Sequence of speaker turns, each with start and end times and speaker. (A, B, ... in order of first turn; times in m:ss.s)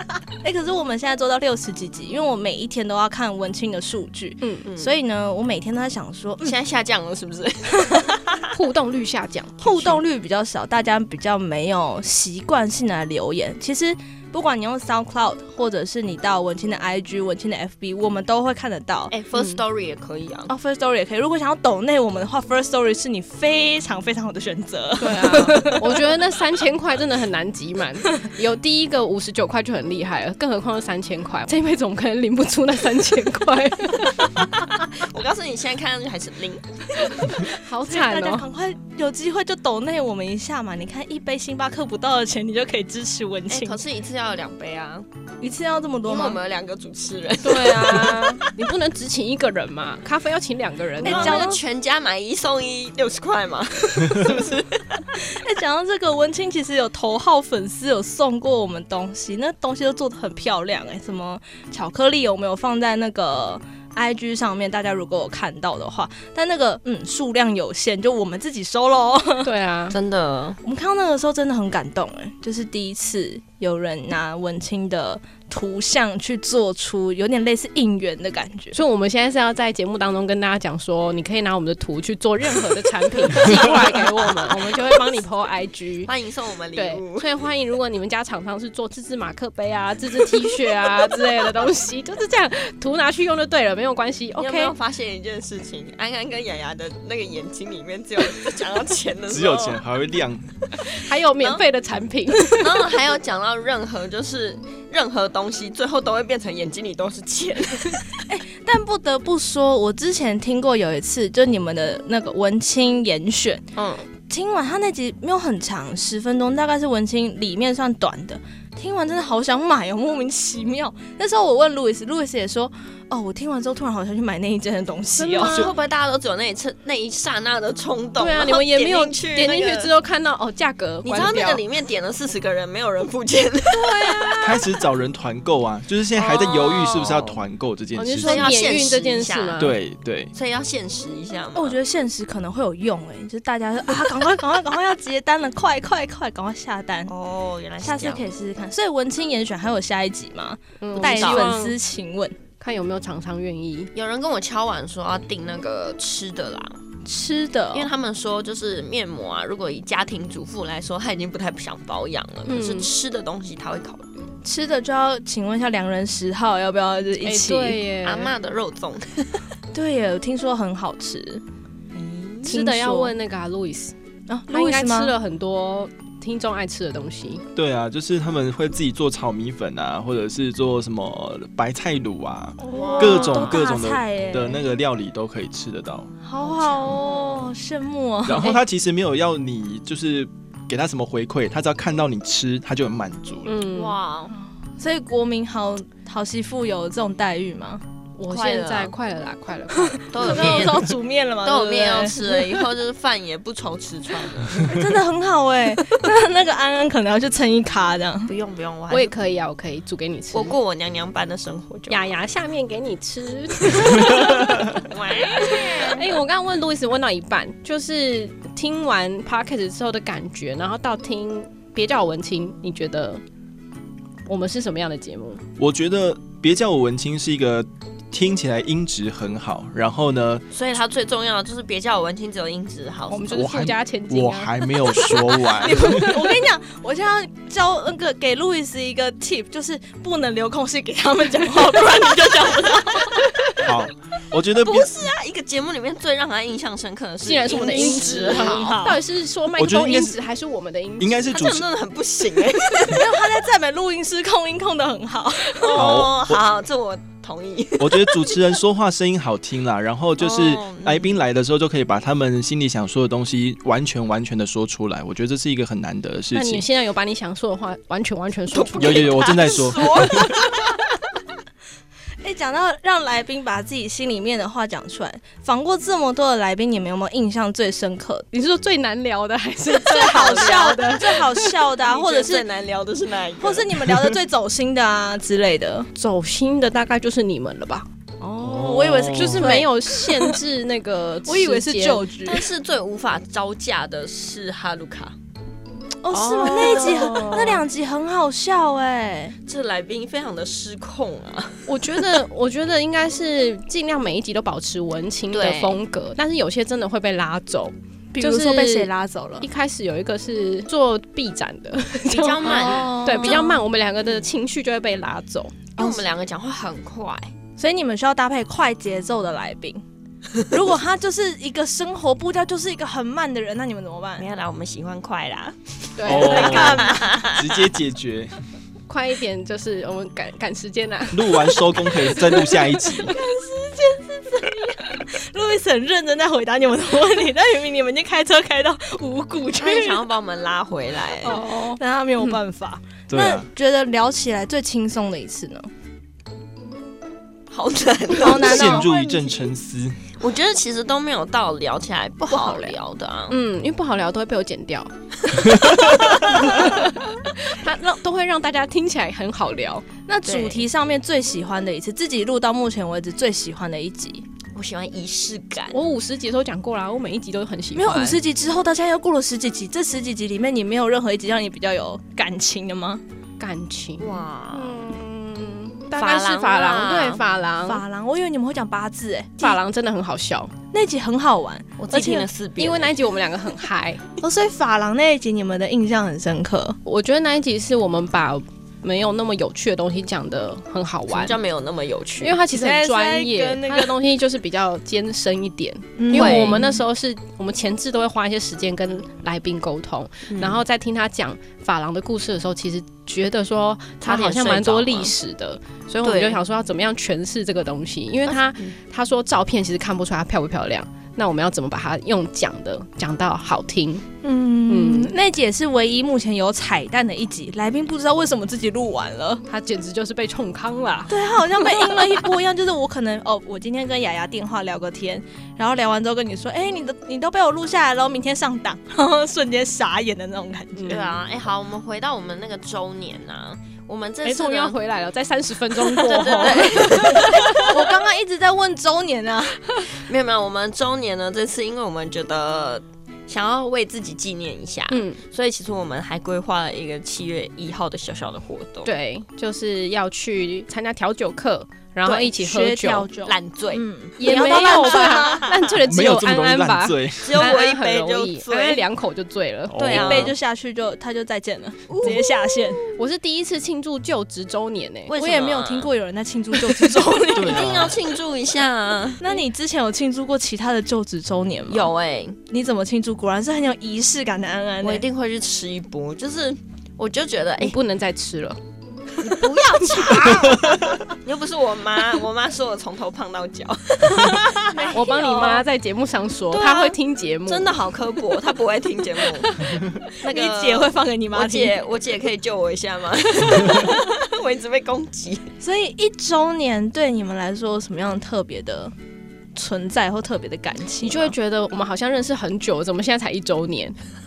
0:00.4-0:06.6 A
0:04.4-0:04.7 B
0:04.6-0:05.0 C
0:06.4-0:08.4 C
0:08.5-0:10.0 B
0:09.6-0:19.2 A
0:19.1-0:20.5 C
0:19.3-0:19.6 B
0:20.5-0:26.0 A
0:25.0-0:34.1 B
0:25.3-0:25.7 C
0:34.4-0:37.2 C
0:37.2-0:43.8 A
0:37.5-0:38.5 B
0:43.5-0:45.1 C
0:45.4-0:46.4 A
0:46.0-0:48.5 C
0:47.4-0:51.6 B
0:51.0-0:51.6 A
0:51.0-0:55.0 C
0:55.3-1:09.5 A
1:09.4-1:10.0 B
1:09.9-1:10.6 C
1:10.6-1:18.8 A
1:18.7-1:26.1 B
1:26.1-1:27.3 C
1:26.8-1:34.8 B
1:34.4-1:39.8 C
1:39.3-1:40.5 D
1:40.8-1:41.6 C
1:41.0-1:43.0 B
1:42.5-1:48.1 C
1:48.3-1:53.7 A
1:53.8-1:54.1 C
1:54.3-2:05.6 A
2:05.2-2:05.7 B
2:05.4-2:09.9 C
2:08.2-2:11.6 B
2:11.0-2:14.5 C
2:13.7-2:14.5 B
2:14.4-2:18.6 D
2:16.1-2:17.4 C
2:18.0-2:19.7 B
2:18.2-2:19.8 C
2:19.6-2:20.3 D
2:20.3-2:21.8 C
2:21.6-2:27.1 A
2:27.1-2:28.3 C
2:27.8-2:32.4 A
2:30.8-2:31.8 B
2:30.9-2:31.6 C
2:32.6-2:33.9 B
2:33.9-2:36.8 C
2:37.0-2:37.9 A
2:37.7-2:44.1 C
2:42.5-2:42.9 B
2:44.4-2:47.8 A
2:47.2-2:48.3 B
2:48.0-2:49.4 C
2:49.7-2:51.4 A
2:51.9-2:52.5 C
2:52.4-2:53.1 A
2:52.5-2:53.9 B
2:54.3-2:55.1 A
2:54.5-2:57.4 B
2:57.6-3:06.1 D
3:02.6-3:04.6 A
3:02.7-3:03.6 C
3:06.2-3:08.6 A
3:06.4-3:07.5 C
3:08.2-3:13.6 D
3:13.4-3:14.0 B
3:13.7-3:14.4 C
3:14.8-3:17.8 A
3:18.2-3:20.7 B
3:18.3-3:18.9 C
3:20.1-3:24.9 C
3:20.2-3:22.5 A
3:24.6-3:28.3 A
3:28.3-3:29.1 C
3:28.9-3:30.6 B
3:30.3-3:32.0 C
3:31.9-3:43.2 B
3:34.8-3:36.1 C
3:44.3-3:45.4 B
3:45.6-3:50.4 D
3:50.5-3:53.3 C
3:53.1-3:56.3 B
3:53.3-3:56.2 D
3:55.6-4:03.3 A
4:03.6-4:05.1 D
4:04.5-4:08.8 C
4:07.2-4:11.3 B
4:07.6-4:09.0 A
4:09.6-4:10.2 D
4:11.0-4:11.7 D
4:11.3-4:13.1 C
4:12.8-4:16.0 A
4:15.6-4:18.4 C
4:15.7-4:16.4 D
4:17.8-4:26.6 D
4:20.2-4:21.2 C
4:26.3-4:29.7 B
4:28.5-4:30.8 C
4:28.8-4:30.3 D
4:32.2-4:38.3 A
4:38.3-4:41.6 B
4:39.9-4:42.5 A
4:40.1-4:40.7 C
4:41.8-4:43.9 C
4:43.4-4:45.9 A
4:46.0-4:47.9 B
4:48.2-4:50.4 A
4:48.4-4:49.5 D
4:48.6-4:52.0 B
4:51.3-4:52.5 A
4:52.2-4:55.2 C
4:56.0-4:59.4 A
4:56.1-4:57.6 B
4:56.4-4:57.4 C
4:59.5-5:02.2 C
5:01.7-5:08.9 B
5:05.3-5:05.8 C
5:08.1-5:09.4 A
5:09.4-5:15.7 B
5:12.1-5:13.5 C
5:12.4-5:13.6 A
5:15.8-5:17.3 C
5:17.6-5:19.8 A
5:20.4-5:24.3 A
5:24.2-5:27.6 C
5:26.0-5:26.9 B
5:26.0-5:28.3 D
5:28.9-5:32.9 B
5:31.1-5:33.2 D
5:33.1-5:40.1 A
5:39.6-5:41.5 C
5:41.2-5:45.7 A
5:41.4-5:41.8 B
5:43.1-5:43.5 D
5:47.5-5:48.9 C
5:48.2-5:49.5 A
5:48.3-5:50.0 D
5:50.2-5:53.4 C
5:52.3-5:52.8 B
5:53.3-5:54.9 B
5:55.3-5:56.8 C
5:55.8-5:59.9 B
6:00.1-6:04.2 A
6:00.2-6:00.6 C
6:04.5-6:05.8 C
6:05.7-6:08.2 B
6:07.7-6:13.0 A
6:13.4-6:17.8 B
6:14.0-6:14.8 C
6:16.0-6:17.2 C
6:17.6-6:19.6 A
6:19.4-6:20.5 B
6:20.7-6:22.3 A
6:21.8-6:23.0 C
6:22.6-6:24.0 B
6:24.2-6:26.8 A
6:26.9-6:31.4 B
6:31.1-6:32.4 C
6:32.2-6:54.1 B
6:32.5-6:33.9 A
6:36.0-6:36.8 A
6:36.1-6:36.6 C
6:40.3-6:40.6 C
6:44.0-6:45.2 C
6:46.0-6:46.4 C
6:48.3-6:48.7 C
6:54.2-6:59.4 A
6:54.7-6:55.1 B
6:59.5-7:02.3 B
7:01.1-7:11.1 A
7:10.8-7:11.2 B
7:10.9-7:14.8 C
7:14.2-7:17.7 B
7:15.8-7:17.8 C
7:16.5-7:19.6 A
7:19.9-7:28.9 C
7:24.9-7:25.2 B
7:28.8-7:33.1 B
7:32.0-7:32.3 C
7:32.4-7:35.5 A
7:33.2-7:35.6 C
7:34.2-7:39.9 B
7:35.8-7:37.6 D
7:37.2-7:38.8 C
7:39.7-7:40.3 D
7:39.8-7:42.8 A
7:39.9-7:40.4 C
7:41.9-7:42.8 C
7:43.0-7:45.1 B
7:45.1-7:45.9 C
7:45.1-7:47.9 A
7:47.3-7:49.2 C
7:47.3-7:48.0 D
7:49.2-7:51.9 A
7:51.7-7:52.4 C
7:52.5-7:55.0 A
7:54.8-7:57.8 C
7:57.6-7:58.6 B
7:59.2-8:05.5 C
7:59.2-8:00.4 B
8:04.3-8:05.6 A
8:04.9-8:07.7 B
8:06.6-8:07.0 A
8:07.5-8:15.5 C
8:10.2-8:11.8 A
8:15.6-8:18.9 A
8:19.6-8:21.3 A
8:21.0-8:24.0 B